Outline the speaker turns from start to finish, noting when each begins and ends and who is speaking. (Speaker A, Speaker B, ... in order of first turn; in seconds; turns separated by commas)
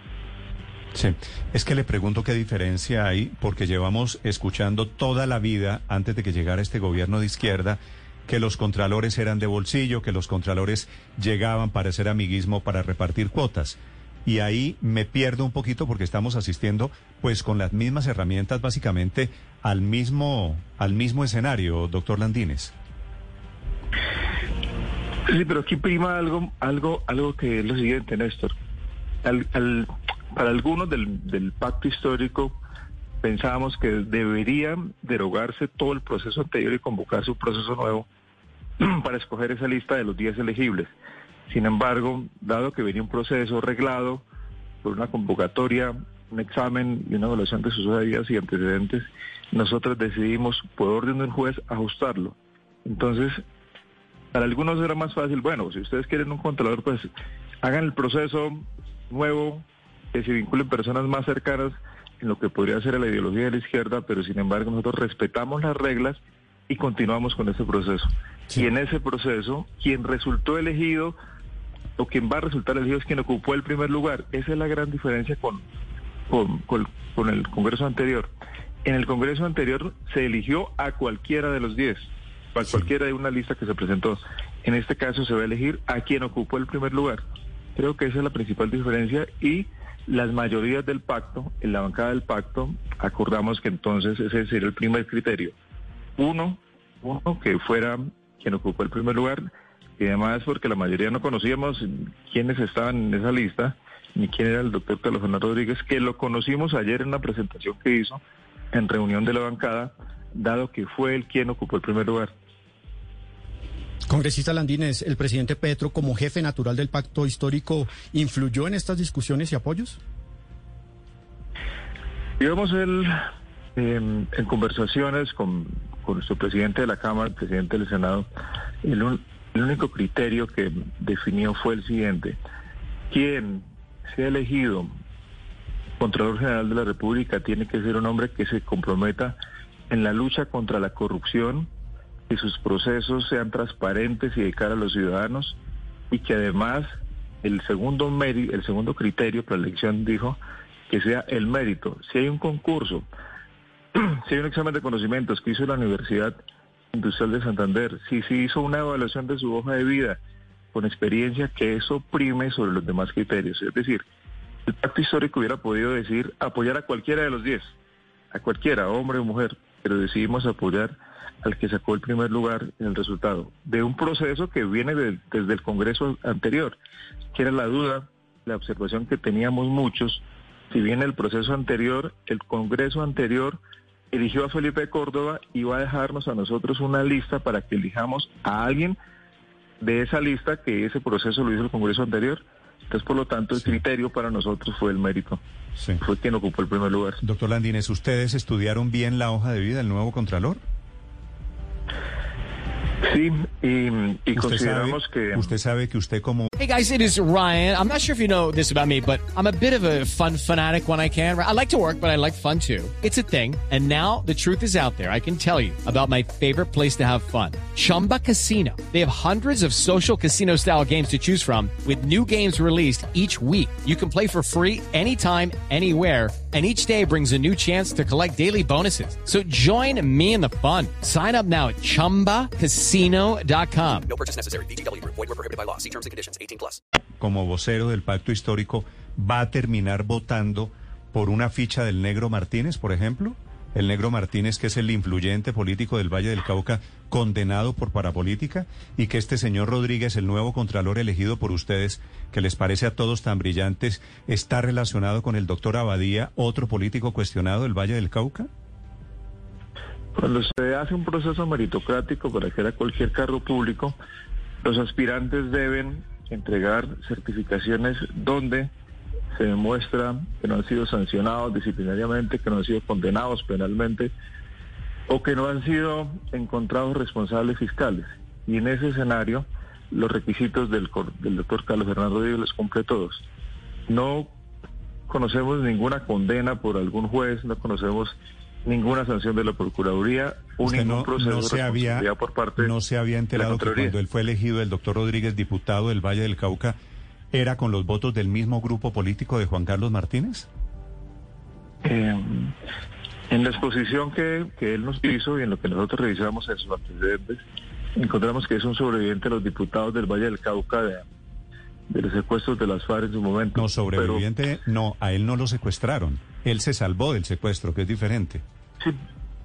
Speaker A: 0.9-22.7, Speaker B: 25.3-28.5, Speaker B: 29.2-32.6, Speaker B: 33.2-38.1, Speaker B: 38.8-40.9, Speaker B: 41.5-44.2, Speaker B: 44.8-53.4, Speaker B: 54.3-57.1, Speaker B: 57.6-66.2, Speaker B: 66.7-71.2, Speaker B: 72.0-75.6, Speaker B: 76.3-78.3, Speaker B: 78.8-87.2, Speaker B: 87.8-95.5, Speaker B: 96.2-99.5, Speaker B: 100.0-108.2, Speaker B: 108.7-112.3, Speaker C: 114.1-120.0, Speaker B: 122.4-123.1, Speaker B: 123.8-128.3, Speaker B: 128.8-132.4, Speaker B: 133.1-134.9, Speaker B: 136.0-139.4, Speaker B: 139.9-141.7, Speaker B: 142.3-145.6, Speaker B: 146.1-146.9, Speaker B: 147.4-150.4, Speaker B: 150.9-153.1, Speaker B: 153.9-156.3, Speaker B: 156.9-160.2, Speaker B: 160.7-164.0, Speaker B: 164.7-167.7, Speaker B: 168.3-176.8, Speaker B: 177.3-183.6, Speaker B: 184.1-189.0, Speaker B: 189.8-195.4, Speaker B: 196.0-197.2, Speaker A: 197.2-200.6, Speaker B: 203.0-205.5, Speaker A: 204.3-206.5, Speaker D: 206.6-233.9, Speaker E: 233.9-236.7, Speaker A: 237.2-258.5, Speaker B: 260.2-264.0, Speaker B: 264.6-268.7, Speaker B: 269.3-274.1, Speaker B: 275.1-283.2, Speaker B: 283.9-284.3, Speaker B: 285.1-292.7, Speaker A: 290.6-296.8, Speaker B: 293.4-294.0, Speaker A: 297.3-300.5, Speaker B: 301.9-302.5, Speaker B: 303.3-307.4, Speaker B: 308.0-311.1, Speaker B: 311.9-314.2, Speaker A: 313.6-318.4